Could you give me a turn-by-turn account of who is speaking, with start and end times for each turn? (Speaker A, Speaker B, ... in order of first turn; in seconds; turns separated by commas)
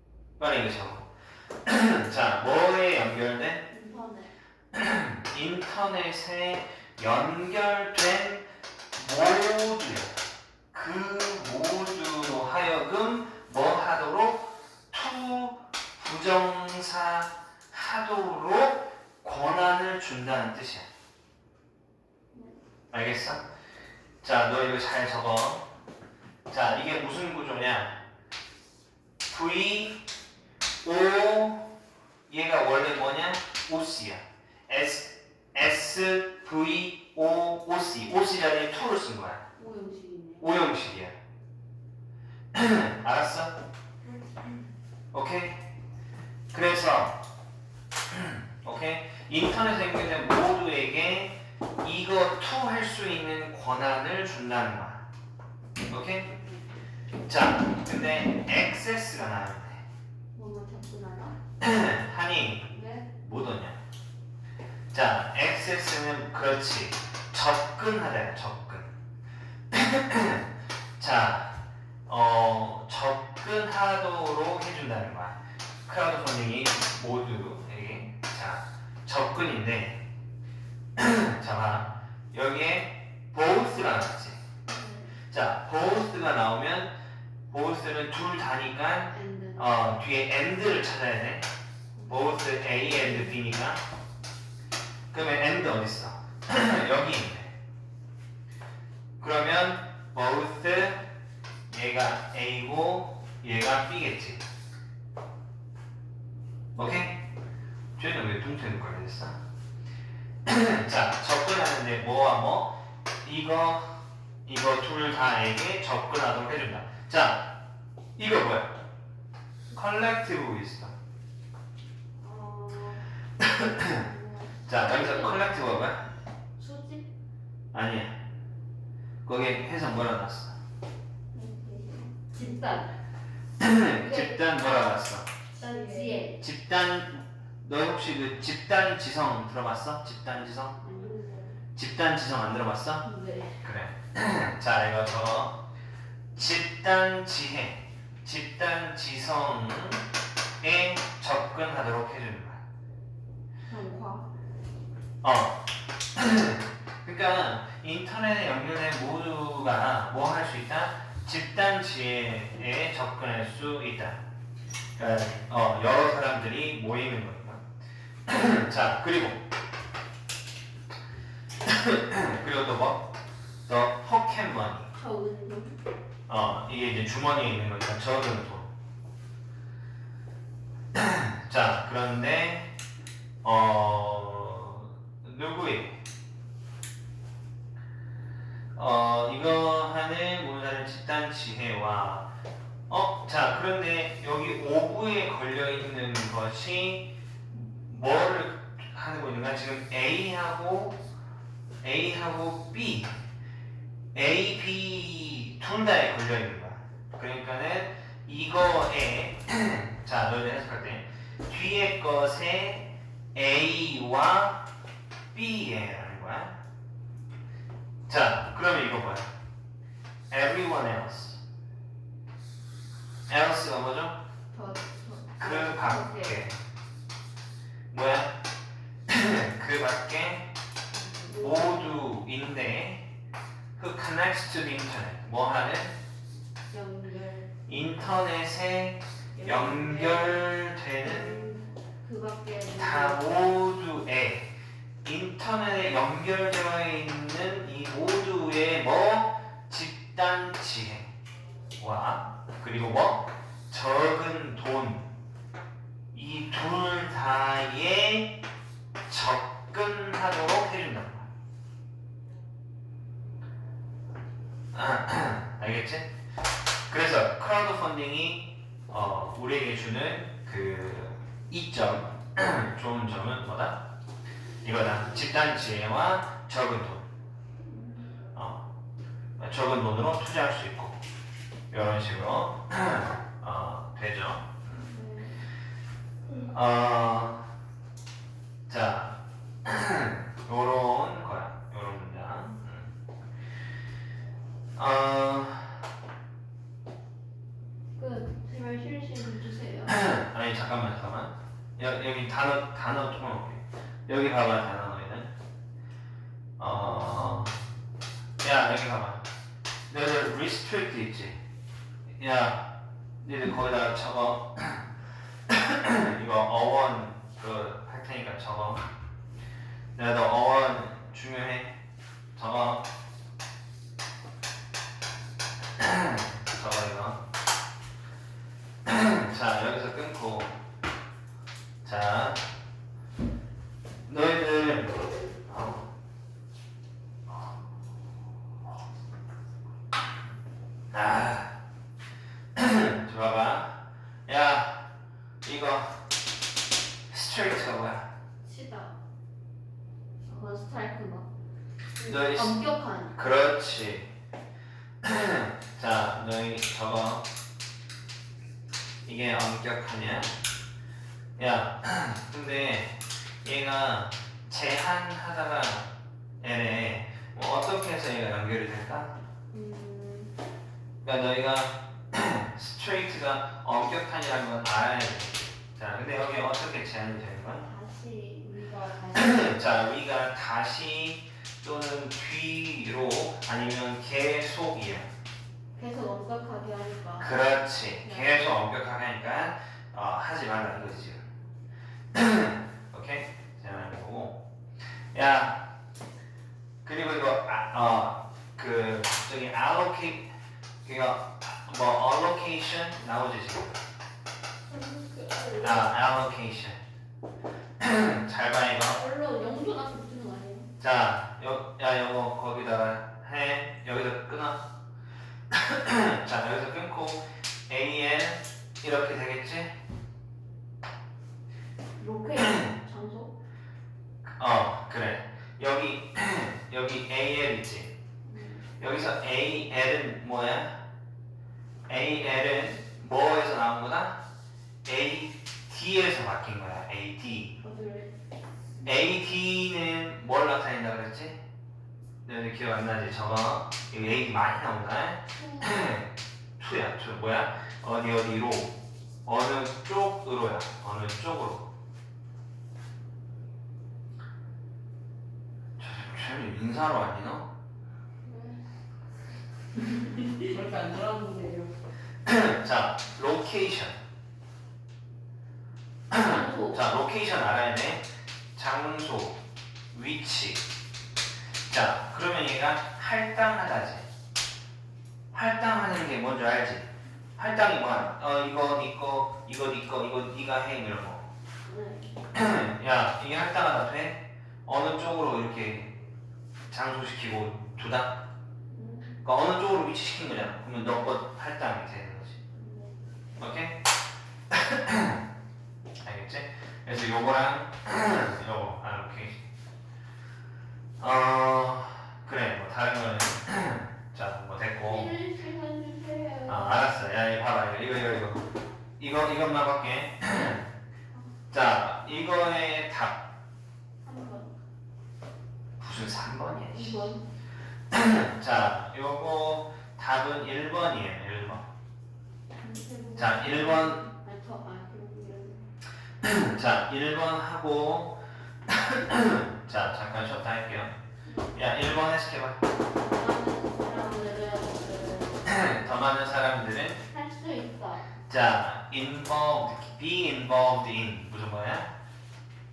Speaker A: 0.4-1.0, Speaker A: 1.6-3.6, Speaker B: 3.7-4.3, Speaker A: 4.7-10.1, Speaker A: 10.7-20.9, Speaker A: 22.9-23.4, Speaker A: 24.2-25.6, Speaker A: 26.5-28.0, Speaker A: 29.3-30.0, Speaker A: 30.8-31.6, Speaker A: 32.3-39.4, Speaker B: 39.5-40.5, Speaker A: 40.4-41.1, Speaker A: 42.5-43.5, Speaker B: 44.0-44.6, Speaker A: 45.1-45.6, Speaker A: 46.5-47.2, Speaker A: 48.1-55.0, Speaker A: 55.9-56.2, Speaker B: 56.2-56.6, Speaker A: 57.3-59.8, Speaker B: 60.3-61.4, Speaker A: 61.6-63.8, Speaker B: 62.7-63.0, Speaker A: 64.9-68.9, Speaker A: 69.7-71.5, Speaker A: 72.1-80.0, Speaker A: 81.0-84.4, Speaker B: 84.7-85.1, Speaker A: 85.3-86.9, Speaker A: 87.5-91.5, Speaker B: 89.1-89.6, Speaker B: 91.9-93.5, Speaker A: 92.1-93.8, Speaker A: 95.1-97.5, Speaker A: 99.2-101.0, Speaker A: 101.7-104.4, Speaker A: 106.7-107.2, Speaker A: 108.0-109.3, Speaker A: 110.4-117.4, Speaker A: 118.2-118.7, Speaker A: 119.7-120.9, Speaker B: 122.2-123.0, Speaker A: 123.4-124.0, Speaker B: 123.8-125.5, Speaker A: 124.7-126.0, Speaker B: 126.6-127.0, Speaker A: 127.7-128.1, Speaker A: 129.2-130.6, Speaker B: 131.3-132.9, Speaker A: 133.6-135.3, Speaker B: 134.0-135.0, Speaker B: 135.5-136.4, Speaker C: 135.6-136.2, Speaker A: 136.4-140.8, Speaker B: 140.8-141.2, Speaker C: 140.9-141.5, Speaker A: 141.8-143.0, Speaker B: 143.0-143.6, Speaker A: 143.6-145.6, Speaker A: 146.3-150.0, Speaker A: 150.6-152.6, Speaker B: 153.7-154.2, Speaker A: 155.2-155.6, Speaker A: 156.1-164.2, Speaker A: 165.0-167.6, Speaker A: 168.2-169.4, Speaker A: 171.7-173.1, Speaker A: 173.7-174.9, Speaker B: 174.9-175.8, Speaker A: 176.3-178.7, Speaker A: 180.9-182.7, Speaker A: 183.4-186.0, Speaker A: 188.8-192.3, Speaker A: 192.9-201.0, Speaker A: 201.8-203.1, Speaker A: 204.1-214.6, Speaker A: 215.3-216.5, Speaker A: 218.1-219.3, Speaker A: 220.3-221.4, Speaker A: 223.3-224.2, Speaker B: 224.5-226.4, Speaker A: 225.4-226.5, Speaker A: 227.9-228.3, Speaker A: 229.1-230.5, Speaker C: 230.9-231.3, Speaker B: 231.2-231.9, Speaker A: 231.3-233.0, Speaker A: 233.8-235.9, Speaker B: 236.7-237.4, Speaker A: 237.7-241.4, Speaker B: 239.3-240.4, Speaker B: 241.0-243.2, Speaker A: 242.7-244.4, Speaker A: 245.0-251.1, Speaker A: 251.8-255.1, Speaker A: 256.1-258.4, Speaker A: 259.1-261.3, Speaker A: 264.7-266.1, Speaker A: 266.9-273.8, Speaker A: 274.6-277.1, Speaker B: 277.7-278.0, Speaker A: 278.3-278.6, Speaker A: 279.4-281.0, Speaker A: 281.7-284.6, Speaker B: 284.8-285.4, Speaker A: 286.5-287.4, Speaker A: 288.7-292.9, Speaker A: 294.8-295.8, Speaker B: 298.0-299.9, Speaker A: 299.9-305.3, Speaker A: 306.6-307.5, Speaker A: 308.4-309.2, Speaker A: 309.9-311.3, Speaker A: 312.2-312.6, Speaker A: 313.2-314.9, Speaker A: 315.5-318.9, Speaker A: 319.9-321.7, Speaker A: 322.3-322.8, Speaker A: 325.8-327.2, Speaker A: 328.8-330.6, Speaker A: 331.8-332.4, Speaker A: 334.1-335.9, Speaker A: 340.9-341.5, Speaker A: 342.6-343.7, Speaker A: 344.2-344.8, Speaker A: 345.4-346.0, Speaker A: 347.1-348.1, Speaker B: 348.4-348.9, Speaker B: 350.2-351.3, Speaker B: 352.0-353.1, Speaker A: 352.0-352.5, Speaker A: 353.1-354.1, Speaker A: 355.0-357.2, Speaker A: 359.0-360.3, Speaker A: 361.4-365.9, Speaker A: 366.4-369.1, Speaker B: 369.5-370.3, Speaker A: 371.0-377.7, Speaker B: 377.6-379.6, Speaker A: 379.1-385.1, Speaker B: 385.8-387.3, Speaker A: 387.2-391.2, Speaker A: 392.1-394.4, Speaker A: 395.1-395.6, Speaker A: 396.8-400.2, Speaker A: 400.8-403.7, Speaker C: 404.6-405.8, Speaker A: 405.6-406.8, Speaker A: 407.8-409.0, Speaker B: 408.9-410.7, Speaker A: 410.8-414.6, Speaker A: 415.5-419.7, Speaker B: 422.0-423.3, Speaker A: 422.4-422.7, Speaker A: 424.2-427.9, Speaker B: 428.2-428.6, Speaker A: 428.8-430.7, Speaker A: 431.9-434.2, Speaker A: 434.8-437.5, Speaker B: 437.6-438.1, Speaker A: 438.8-441.4, Speaker A: 442.2-451.7, Speaker B: 445.4-445.9, Speaker A: 455.8-457.5, Speaker C: 460.4-461.7, Speaker A: 462.2-464.0, Speaker A: 466.1-469.4, Speaker B: 466.1-466.8, Speaker A: 469.9-470.6, Speaker A: 471.7-474.1, Speaker A: 475.3-481.3, Speaker B: 481.6-482.1, Speaker A: 482.3-485.9, Speaker A: 486.7-488.2, Speaker B: 488.7-489.1, Speaker A: 489.2-492.4, Speaker B: 492.5-493.0, Speaker A: 493.4-493.8, Speaker A: 494.5-495.2, Speaker A: 496.0-499.4, Speaker A: 501.0-505.1, Speaker B: 504.9-506.8, Speaker A: 506.5-508.4, Speaker A: 509.0-510.7, Speaker A: 511.5-513.2, Speaker B: 514.0-514.5, Speaker A: 515.8-517.1, Speaker B: 516.7-517.2, Speaker A: 517.9-521.6, Speaker B: 522.6-525.6, Speaker C: 522.6-523.6, Speaker A: 523.1-524.0, Speaker A: 526.2-530.9, Speaker B: 531.2-531.5, Speaker A: 531.5-532.6, Speaker B: 532.9-535.4, Speaker A: 535.4-537.0, Speaker B: 537.1-538.1, Speaker A: 538.3-541.9